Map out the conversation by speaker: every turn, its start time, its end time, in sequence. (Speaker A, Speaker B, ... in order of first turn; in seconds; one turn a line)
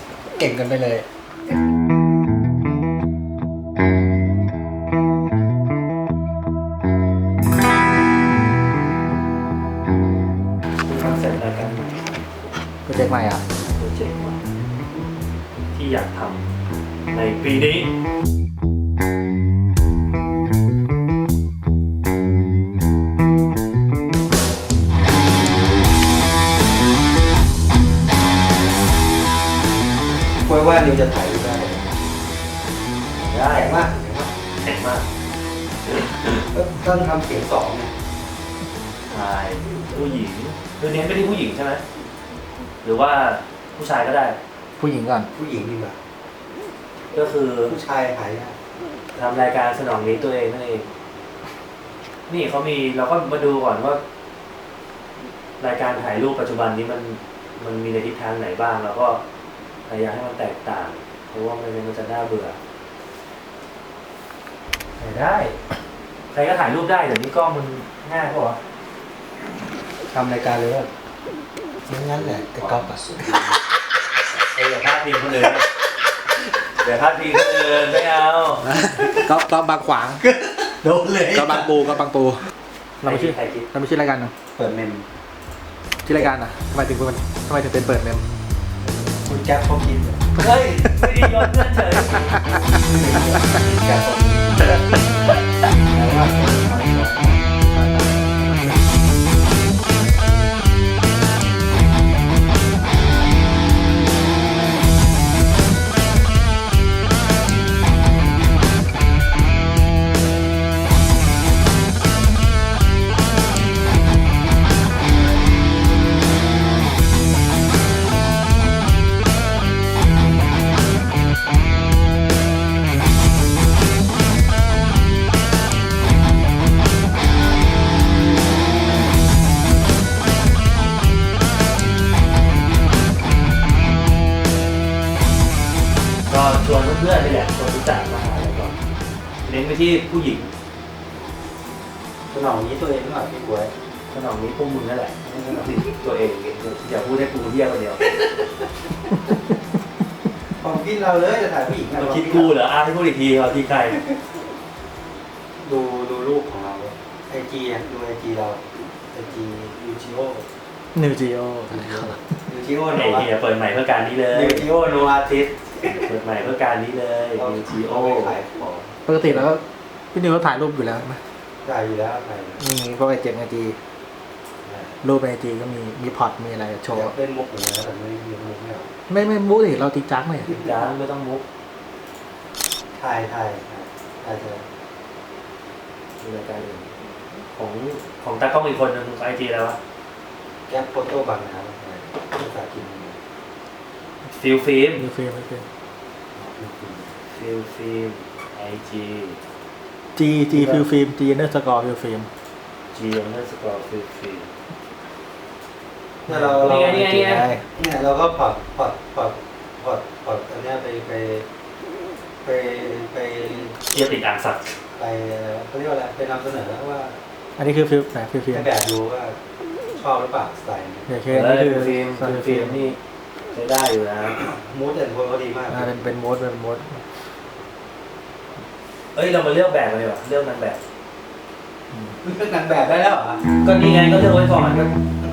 Speaker A: 0.3-1.1
Speaker B: 10.8-12.1
Speaker A: 12.8-13.4
Speaker B: 13.6-14.5
Speaker B: 15.7-16.5
Speaker B: 17.1-17.9
Speaker C: 30.4-31.9
Speaker B: 33.1-33.8
Speaker C: 33.5-34.3
Speaker B: 34.6-35.0
Speaker B: 35.8-36.4
Speaker C: 36.4-37.9
Speaker B: 39.1-41.8
Speaker B: 42.8-44.4
Speaker A: 44.8-45.3
Speaker C: 45.3-46.0
Speaker B: 47.1-47.8
Speaker C: 47.7-48.5
Speaker B: 49.1-50.9
Speaker B: 52.3-54.0
Speaker B: 55.6-59.2
Speaker B: 59.9-62.6
Speaker B: 65.0-65.6
Speaker B: 66.3-68.6
Speaker C: 70.1-70.9
Speaker C: 71.9-73.6
Speaker B: 74.5-75.7
Speaker B: 76.7-78.7
Speaker A: 78.6-80.2
Speaker C: 78.9-79.3
Speaker C: 80.2-81.9
Speaker A: 81.3-82.4
Speaker A: 83.0-84.3
Speaker B: 83.0-83.7
Speaker C: 84.5-85.0
Speaker A: 86.0-88.2
Speaker C: 88.8-90.2
Speaker B: 90.4-92.4
Speaker C: 92.8-94.8
Speaker C: 95.9-97.4
Speaker B: 136.3-138.8
Speaker B: 139.4-140.5
Speaker C: 142.3-143.7
Speaker B: 144.1-148.0
Speaker C: 150.4-152.5
Speaker B: 151.9-154.0
Speaker C: 155.6-160.5
Speaker A: 160.9-162.2
Speaker C: 161.7-163.3
Speaker B: 162.9-164.7
Speaker C: 164.3-166.1
Speaker B: 165.8-168.3
Speaker C: 167.3-169.0
Speaker A: 169.1-171.2
Speaker C: 171.6-172.7
Speaker A: 172.6-173.8
Speaker A: 175.0-177.1
Speaker C: 176.9-178.9
Speaker A: 179.1-180.5
Speaker B: 180.4-181.4
Speaker C: 182.9-184.7
Speaker B: 186.2-186.9
Speaker B: 187.5-189.8
Speaker C: 190.7-193.2
Speaker B: 194.2-195.0
Speaker A: 195.0-195.7
Speaker C: 196.4-197.1
Speaker B: 197.2-199.4
Speaker A: 200.1-202.3
Speaker B: 200.5-200.9
Speaker B: 202.9-204.5
Speaker C: 206.3-211.4
Speaker A: 206.3-207.6
Speaker B: 206.3-207.5
Speaker C: 212.4-213.8
Speaker B: 213.8-214.8
Speaker C: 214.9-217.2
Speaker A: 217.6-218.7
Speaker C: 218.5-219.4
Speaker C: 219.9-221.1
Speaker A: 221.1-222.9
Speaker B: 221.3-223.0
Speaker B: 223.5-224.4
Speaker C: 224.4-225.9
Speaker A: 225.7-227.2
Speaker B: 229.1-230.8
Speaker C: 232.1-233.4
Speaker B: 233.5-234.9